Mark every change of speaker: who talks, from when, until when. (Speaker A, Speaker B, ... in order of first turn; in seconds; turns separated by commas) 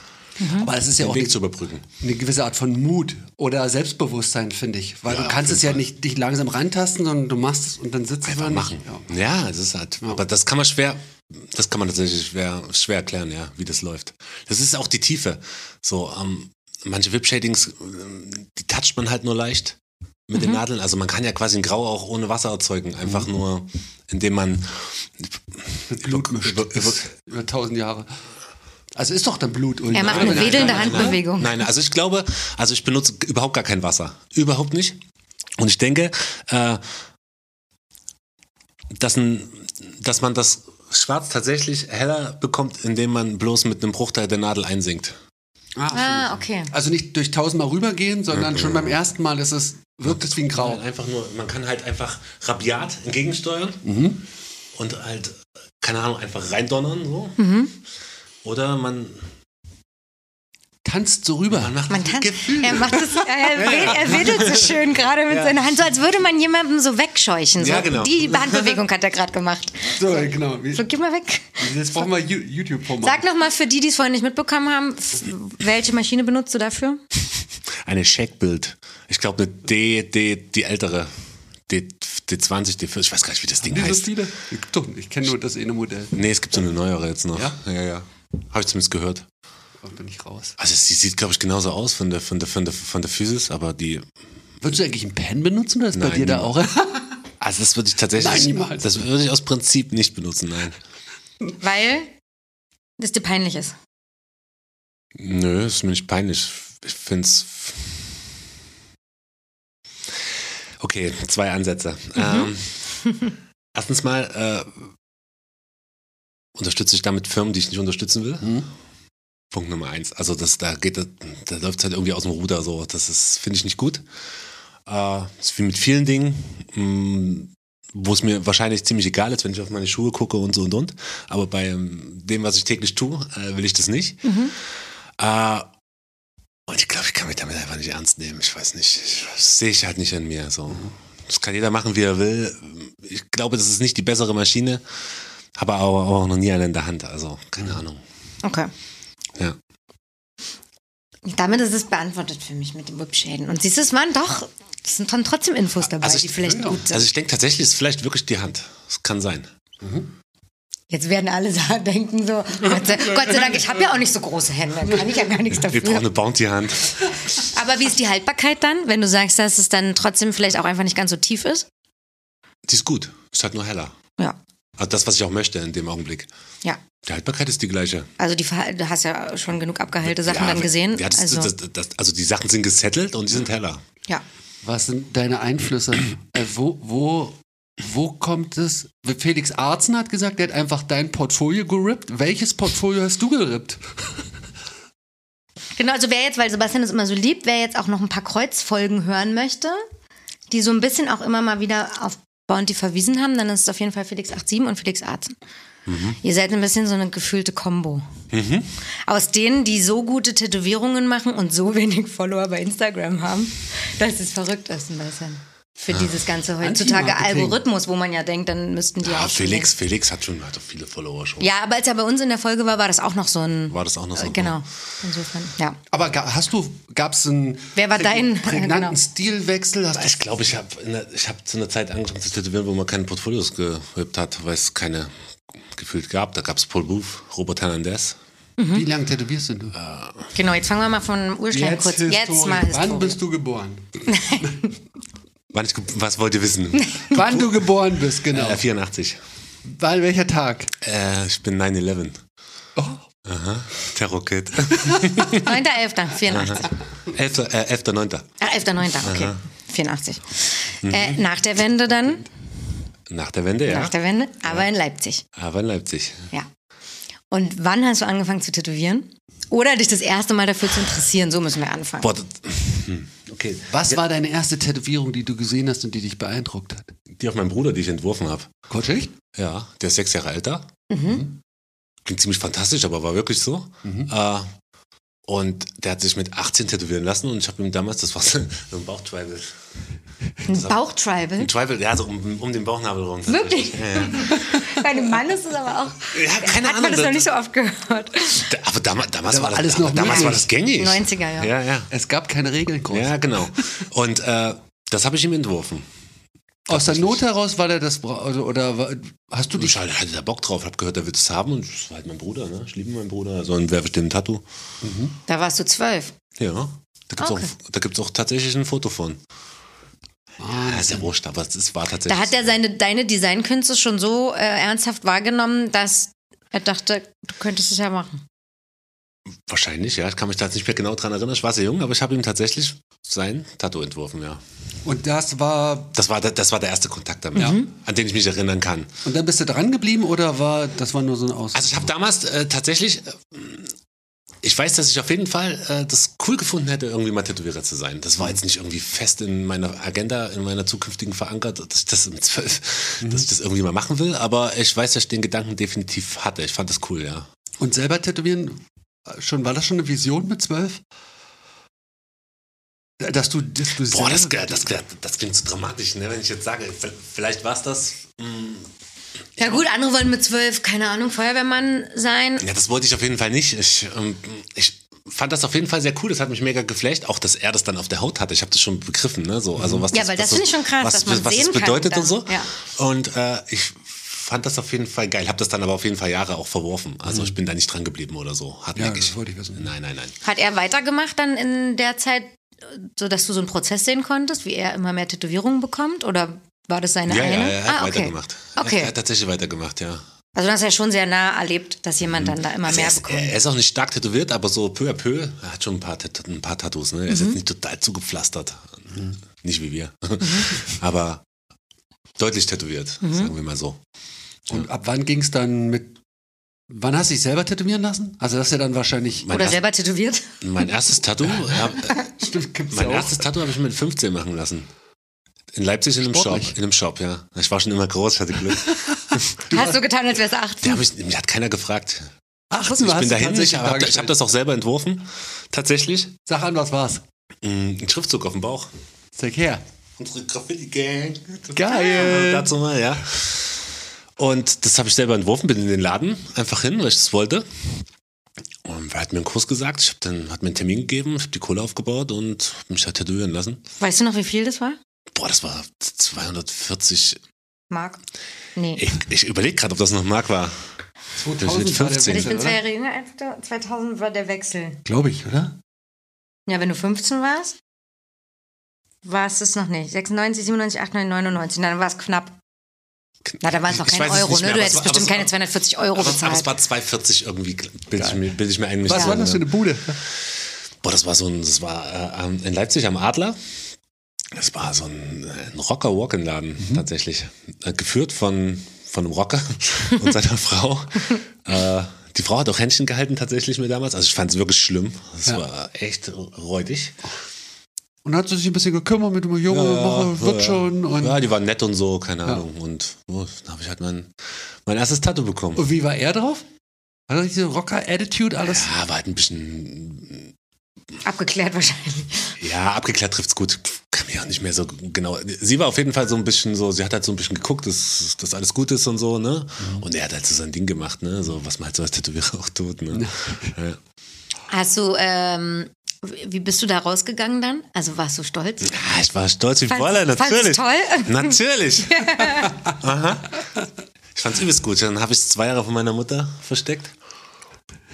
Speaker A: 0.4-0.7, Speaker B: 0.6-1.4, Speaker C: 1.0-1.9, Speaker B: 2.0-9.1, Speaker C: 5.1-5.8, Speaker C: 8.2-19.8, Speaker C: 20.3-27.0, Speaker A: 20.3-20.6, Speaker B: 25.9-28.1, Speaker B: 28.9-31.2, Speaker A: 29.9-31.6, Speaker C: 30.0-35.0, Speaker C: 35.6-36.8, Speaker C: 39.0-45.2, Speaker B: 45.8-50.8, Speaker A: 45.9-46.7, Speaker C: 48.3-49.0, Speaker C: 50.0-53.8, Speaker B: 53.9-54.2, Speaker C: 54.8-57.4, Speaker A: 57.4-57.7, Speaker C: 58.4-59.3, Speaker B: 60.9-61.8, Speaker C: 61.5-65.6, Speaker A: 61.9-72.0, Speaker B: 62.6-64.1, Speaker C: 67.6-68.8, Speaker B: 70.0-70.8, Speaker B: 71.6-73.2, Speaker A: 73.0-77.0, Speaker C: 77.8-81.1, Speaker C: 81.7-84.1, Speaker B: 83.6-86.2, Speaker C: 86.1-89.3, Speaker B: 89.8-90.6, Speaker C: 90.6-94.1, Speaker B: 94.6-97.2, Speaker C: 95.9-96.5, Speaker C: 97.4-100.8, Speaker B: 98.2-98.9, Speaker A: 101.6-102.1, Speaker A: 103.0-103.8, Speaker C: 105.2-108.0, Speaker C: 110.8-113.0, Speaker A: 112.2-112.5, Speaker C: 113.7-114.9, Speaker C: 116.5-118.6, Speaker B: 118.4-118.7, Speaker C: 119.5-124.0, Speaker C: 124.9-134.3, Speaker A: 134.2-134.5, Speaker C: 135.2-135.7, Speaker C: 136.7-144.8, Speaker C: 145.6-148.0, Speaker A: 148.4-148.7, Speaker A: 151.3-157.1, Speaker C: 156.0-156.3, Speaker B: 156.4-156.8, Speaker C: 156.9-159.5, Speaker B: 159.8-160.1, Speaker A: 160.9-166.1, Speaker C: 165.5-167.0, Speaker A: 167.4-171.7, Speaker C: 172.7-173.9, Speaker C: 174.8-176.3, Speaker C: 177.0-178.1, Speaker A: 178.2-181.5, Speaker C: 180.0-183.8, Speaker B: 184.6-194.2, Speaker A: 195.8-199.8, Speaker A: 200.5-205.3, Speaker C: 205.9-206.2, Speaker A: 206.2-208.1, Speaker C: 208.3-208.7, Speaker A: 209.1-219.7, Speaker B: 216.6-217.6, Speaker C: 219.0-221.5, Speaker A: 221.4-225.8, Speaker C: 223.7-224.6, Speaker B: 225.9-230.2, Speaker A: 227.8-229.0, Speaker C: 229.9-235.1, Speaker C: 235.7-238.2, Speaker A: 238.6-238.9, Speaker B: 238.7-239.8, Speaker C: 239.8-240.3, Speaker A: 240.3-243.2, Speaker B: 241.5-244.5, Speaker A: 244.1-244.7, Speaker C: 245.5-247.7, Speaker A: 246.8-247.2, Speaker B: 247.1-248.7, Speaker C: 248.3-249.2, Speaker B: 249.7-250.7, Speaker C: 250.8-252.2, Speaker B: 252.8-253.0, Speaker C: 253.2-255.5, Speaker A: 255.3-256.8, Speaker C: 256.3-258.3, Speaker A: 258.4-262.3, Speaker C: 259.0-259.4, Speaker C: 260.8-261.2, Speaker C: 263.1-263.9, Speaker A: 263.7-265.2, Speaker C: 265.3-266.3, Speaker A: 267.3-272.1, Speaker C: 272.0-274.0, Speaker B: 273.7-276.9, Speaker C: 277.1-278.5, Speaker B: 278.7-279.1, Speaker C: 279.3-280.7, Speaker A: 280.9-281.3, Speaker C: 282.1-284.5, Speaker B: 283.8-284.1, Speaker C: 285.3-289.5, Speaker A: 290.4-291.5, Speaker C: 290.5-290.8, Speaker C: 291.4-294.6, Speaker A: 293.3-298.5, Speaker C: 296.1-297.2, Speaker C: 298.4-301.9, Speaker B: 299.3-300.5, Speaker A: 300.0-301.5, Speaker B: 301.9-303.6, Speaker C: 302.9-305.9, Speaker B: 306.7-309.8, Speaker C: 306.7-307.2, Speaker C: 309.6-314.4, Speaker B: 314.8-315.1, Speaker A: 315.3-316.1, Speaker C: 316.4-319.2, Speaker A: 317.2-317.5, Speaker B: 320.4-321.1, Speaker C: 320.5-322.5, Speaker A: 322.1-328.2, Speaker C: 329.5-334.4, Speaker B: 334.9-336.0, Speaker C: 335.9-338.9, Speaker B: 337.4-337.6, Speaker A: 337.4-337.7, Speaker B: 339.1-341.9, Speaker C: 341.5-343.7, Speaker C: 344.4-357.3, Speaker B: 357.6-360.8, Speaker B: 363.0-364.6, Speaker C: 363.9-368.7, Speaker A: 369.4-372.5, Speaker C: 372.4-390.1, Speaker B: 379.6-379.9, Speaker A: 379.9-382.5, Speaker B: 388.8-389.7, Speaker A: 390.2-398.9, Speaker C: 397.1-400.0, Speaker A: 400.4-403.4, Speaker C: 402.1-408.8, Speaker A: 407.1-407.4, Speaker C: 409.4-411.2, Speaker A: 410.2-410.5, Speaker C: 412.2-413.8, Speaker A: 413.0-413.3, Speaker B: 414.5-415.9, Speaker B: 416.7-419.4, Speaker C: 419.2-419.6, Speaker A: 419.3-420.3, Speaker C: 420.4-422.1, Speaker B: 421.3-423.3, Speaker C: 422.7-424.7, Speaker C: 425.5-429.5, Speaker B: 426.0-426.6, Speaker B: 428.7-429.8, Speaker A: 429.5-430.9, Speaker C: 430.6-436.1, Speaker B: 432.5-434.2, Speaker B: 436.3-437.0, Speaker C: 437.4-438.7, Speaker B: 439.2-439.6, Speaker C: 440.0-447.5, Speaker B: 441.5-442.5, Speaker C: 448.6-453.6, Speaker A: 453.8-454.8, Speaker C: 455.1-457.2, Speaker A: 457.7-458.0, Speaker A: 458.6-458.8, Speaker C: 458.8-460.6, Speaker B: 461.2-462.6, Speaker C: 461.4-462.4, Speaker A: 462.1-464.8, Speaker B: 464.9-465.6, Speaker A: 466.5-467.6, Speaker A: 469.0-472.4, Speaker C: 473.3-475.3, Speaker A: 473.4-476.5, Speaker C: 475.9-479.5, Speaker B: 478.0-478.2, Speaker B: 478.8-480.0, Speaker A: 478.9-479.2, Speaker C: 480.8-483.4, Speaker C: 484.3-497.0, Speaker B: 498.1-501.2, Speaker C: 499.5-504.1, Speaker C: 504.7-505.7, Speaker B: 505.6-506.4, Speaker B: 507.1-508.7, Speaker C: 508.4-510.3, Speaker A: 511.0-512.4, Speaker C: 512.4-523.8, Speaker B: 522.9-523.5, Speaker A: 524.5-528.8, Speaker C: 528.6-533.5, Speaker A: 529.7-532.6, Speaker C: 534.1-536.9